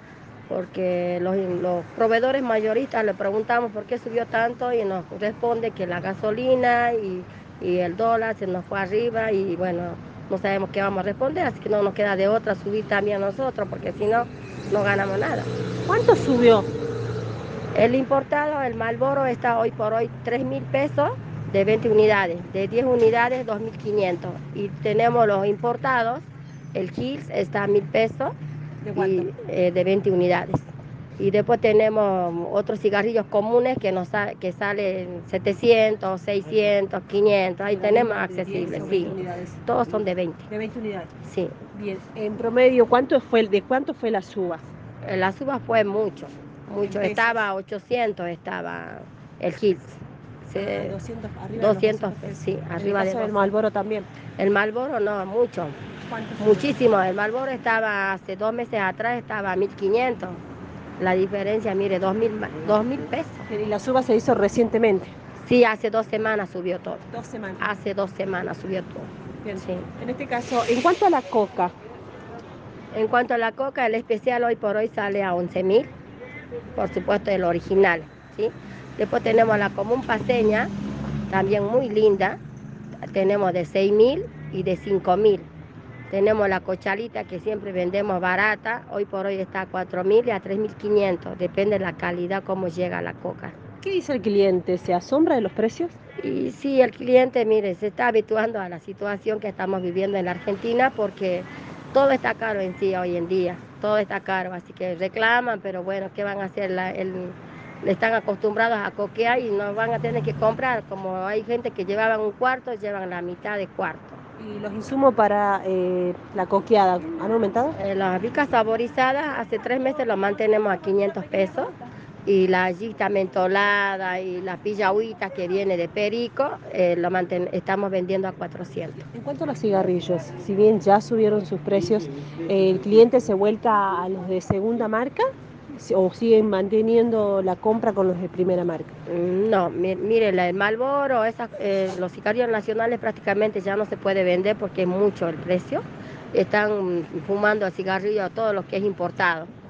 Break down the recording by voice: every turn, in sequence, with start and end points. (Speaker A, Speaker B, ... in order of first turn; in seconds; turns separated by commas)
Speaker A: 0.5-15.5, Speaker B: 15.9-16.7, Speaker A: 17.7-28.3, Speaker B: 28.8-29.3, Speaker A: 28.9-40.5, Speaker B: 37.6-39.6, Speaker B: 40.5-41.1, Speaker A: 41.2-41.5, Speaker B: 41.7-44.6, Speaker A: 45.0-51.0, Speaker B: 46.8-47.5, Speaker B: 50.5-54.1, Speaker A: 51.6-53.4, Speaker A: 54.4-55.8, Speaker B: 56.0-56.7, Speaker A: 56.4-60.4, Speaker A: 61.0-63.5, Speaker B: 63.5-65.1, Speaker A: 65.4-67.1, Speaker B: 67.1-67.7, Speaker A: 67.6-69.9, Speaker B: 69.4-71.7, Speaker A: 72.9-75.9, Speaker A: 76.8-80.7, Speaker A: 81.3-82.4, Speaker A: 83.1-85.5, Speaker A: 86.1-93.5, Speaker B: 93.8-95.9, Speaker A: 96.2-114.2, Speaker B: 114.4-117.8, Speaker A: 117.8-121.7, Speaker A: 122.2-129.1, Speaker B: 129.1-138.9, Speaker A: 139.1-149.5